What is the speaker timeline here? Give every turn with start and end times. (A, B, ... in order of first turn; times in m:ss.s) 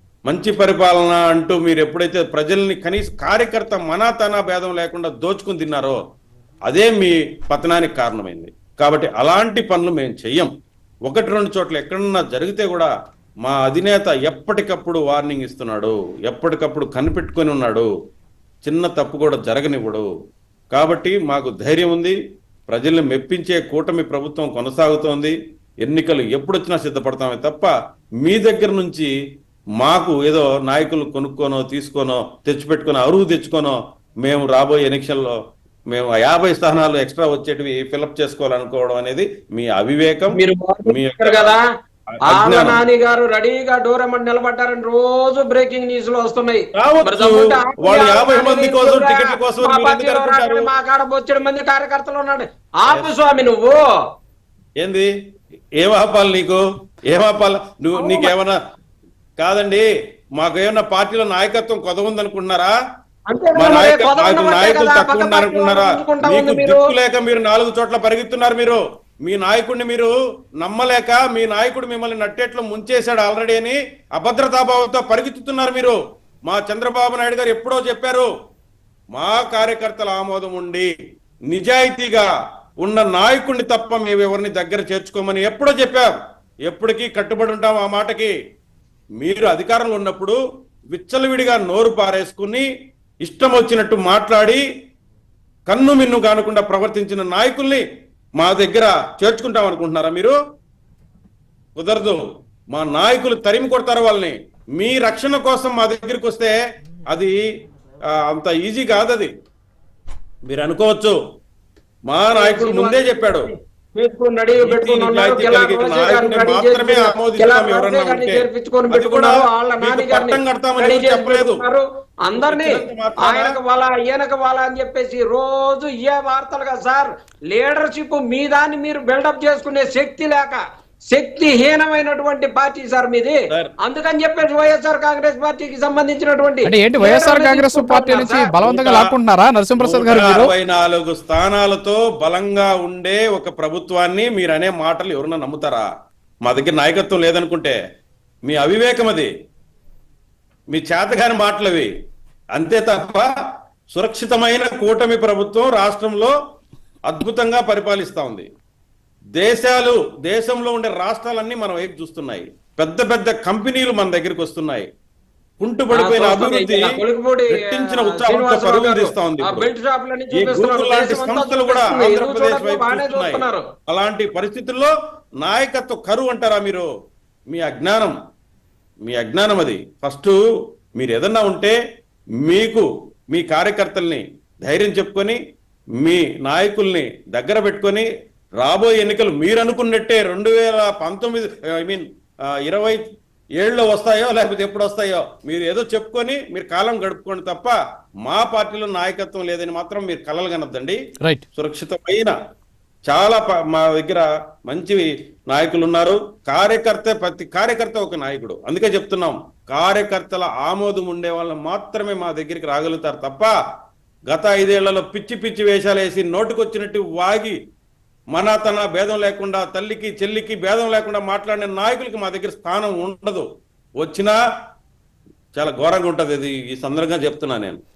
0:00.3-0:06.0 A
0:06.7-0:10.5 A
0:11.1-0:12.9 A
0:13.4-0:17.9 A
0:18.6-0:20.1 A
0:20.7-0:22.2 A
0:22.7-0:27.7 A
0:28.2-0:29.1 A
0:29.8-0:35.4 A
0:35.9-0:41.6 A
0:40.4-0:41.6 B
0:42.2-0:42.8 A
0:42.3-0:53.8 B
0:46.8-0:50.7 A
0:54.8-0:55.1 A
0:55.8-0:58.6 A
0:58.0-0:58.3 B
0:59.4-0:59.9 A
1:00.4-1:02.8 A
1:03.3-1:06.9 B
1:03.6-1:18.3 A
1:19.2-1:20.9 A
1:21.5-1:22.3 A
1:22.8-1:26.2 A
1:26.7-1:28.3 A
1:29.2-1:30.4 A
1:30.9-1:32.7 A
1:33.2-1:34.6 A
1:35.7-1:37.8 A
1:38.4-1:40.4 A
1:41.8-1:46.6 A
1:47.1-1:47.4 A
1:48.1-1:49.3 A
1:50.5-1:51.2 A
1:52.1-1:53.5 A
1:52.3-2:18.7 B
1:54.6-2:01.6 A
2:02.4-2:03.5 A
2:16.7-2:20.5 C
2:18.7-2:19.1 A
2:19.8-2:25.9 A
2:26.4-2:27.8 A
2:28.5-2:29.3 A
2:30.7-2:31.9 A
2:32.6-2:33.3 A
2:33.9-2:36.3 A
2:37.1-2:38.5 A
2:39.4-2:44.9 A
2:45.6-2:47.0 A
2:46.0-2:53.7 B
2:47.5-2:49.7 A
2:50.3-2:56.9 A
2:57.5-2:58.2 A
2:59.1-3:00.4 A
3:01.0-3:01.8 A
3:02.4-3:05.4 A
3:06.0-3:08.1 A
3:08.6-3:13.0 A
3:13.6-3:21.0 A
3:21.6-3:22.4 A
3:23.1-3:33.5 A
3:34.3-3:37.6 A
3:38.3-3:43.5 A
3:44.0-3:44.4 A
3:45.6-3:47.8 A